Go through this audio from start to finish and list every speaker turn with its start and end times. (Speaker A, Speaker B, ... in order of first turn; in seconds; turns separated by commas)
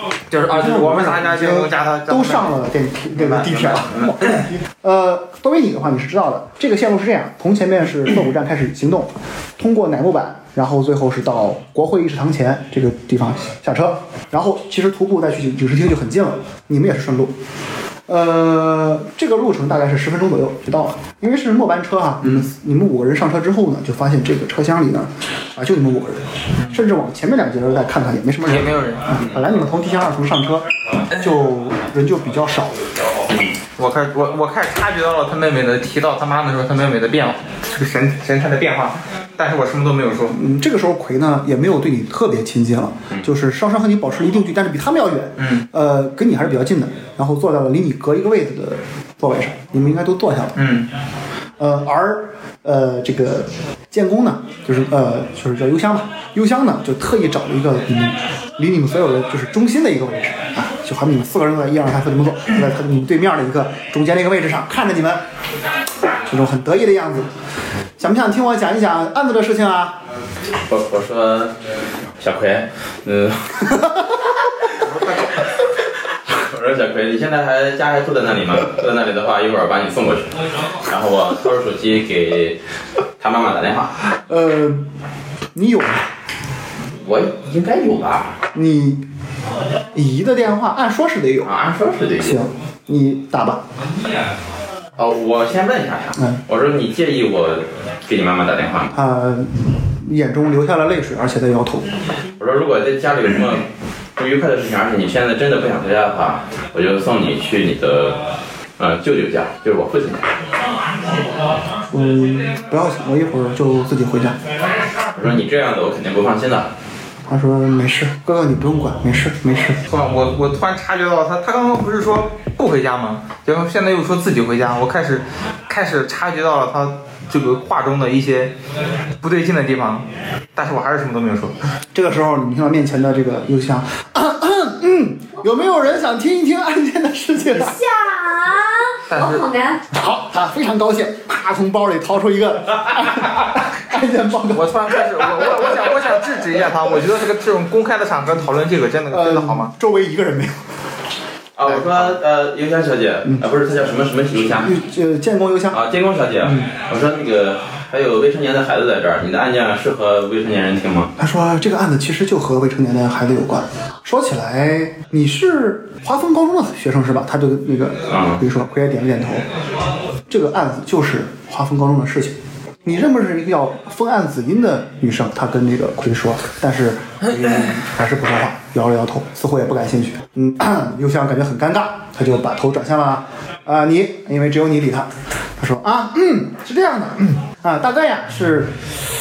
Speaker A: 0.3-2.5, Speaker B: 0.4-17.3, Speaker A: 3.2-3.8, Speaker B: 18.1-32.8, Speaker A: 22.2-22.5, Speaker A: 28.5-29.1, Speaker C: 33.3-33.5, Speaker A: 33.8-40.4, Speaker B: 40.3-50.7, Speaker A: 45.4-45.6, Speaker A: 50.5-50.9, Speaker B: 51.6-65.2, Speaker B: 66.3-67.3, Speaker B: 68.0-70.0, Speaker C: 70.6-71.5, Speaker C: 72.2-73.8, Speaker C: 76.3-82.6, Speaker C: 83.2-84.0, Speaker B: 84.2-84.9, Speaker B: 85.5-86.1, Speaker C: 87.0-88.4, Speaker B: 88.5-89.0, Speaker B: 89.9-91.5, Speaker C: 91.4-92.4, Speaker B: 92.2-93.6, Speaker C: 95.0-98.9, Speaker B: 98.9-101.9, Speaker C: 102.4-108.2, Speaker C: 108.8-110.4, Speaker B: 111.9-114.4, Speaker C: 115.1-116.7, Speaker B: 117.3-119.8, Speaker A: 119.9-128.5, Speaker A: 129.2-131.6, Speaker B: 131.9-137.8, Speaker D: 137.5-139.8, Speaker A: 139.1-139.4, Speaker B: 139.9-144.8, Speaker A: 144.4-149.7, Speaker B: 149.1-150.6, Speaker C: 151.6-154.8, Speaker B: 154.3-155.8, Speaker C: 155.7-161.1, Speaker B: 156.4-156.7, Speaker B: 161.2-169.5, Speaker C: 168.1-168.4, Speaker B: 170.3-188.9